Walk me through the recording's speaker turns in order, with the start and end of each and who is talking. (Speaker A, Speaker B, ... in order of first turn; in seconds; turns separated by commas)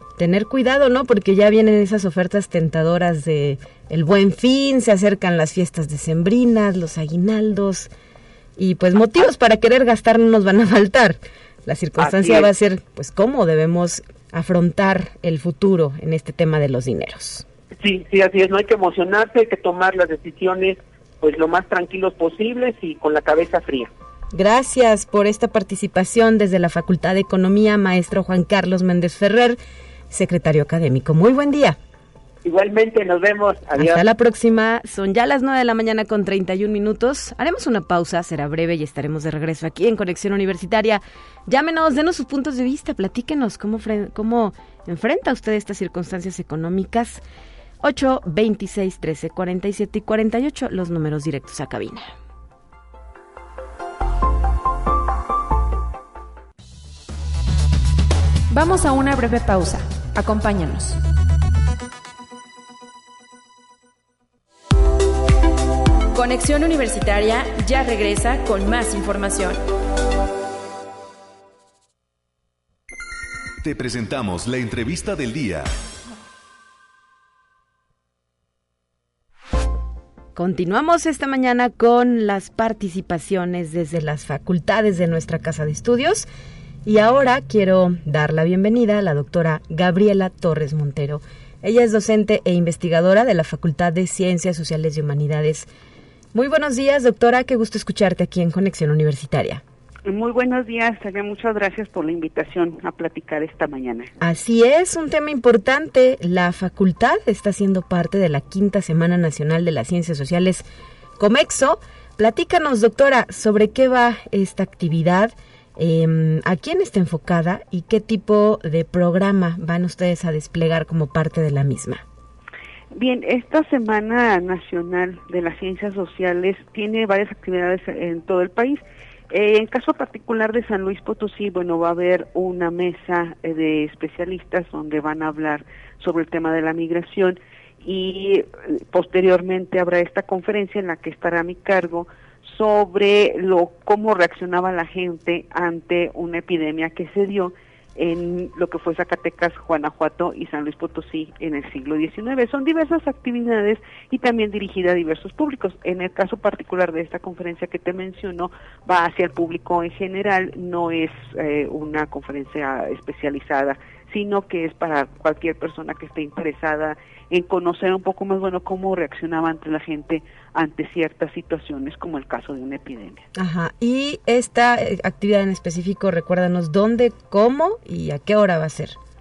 Speaker A: 0.2-7.9, Speaker A: 8.6-17.4, Speaker B: 12.0-12.5, Speaker B: 17.8-23.9, Speaker A: 24.3-29.6, Speaker A: 30.1-31.8, Speaker B: 32.5-34.0, Speaker A: 33.8-47.2, Speaker A: 47.8-52.1, Speaker C: 58.5-61.0, Speaker C: 66.1-69.6, Speaker D: 73.6-75.7, Speaker A: 80.4-86.3, Speaker A: 86.9-95.7, Speaker A: 96.3-99.6, Speaker E: 100.1-104.1, Speaker A: 104.2-110.7, Speaker A: 111.2-122.0, Speaker E: 122.9-173.3, Speaker A: 173.4-179.0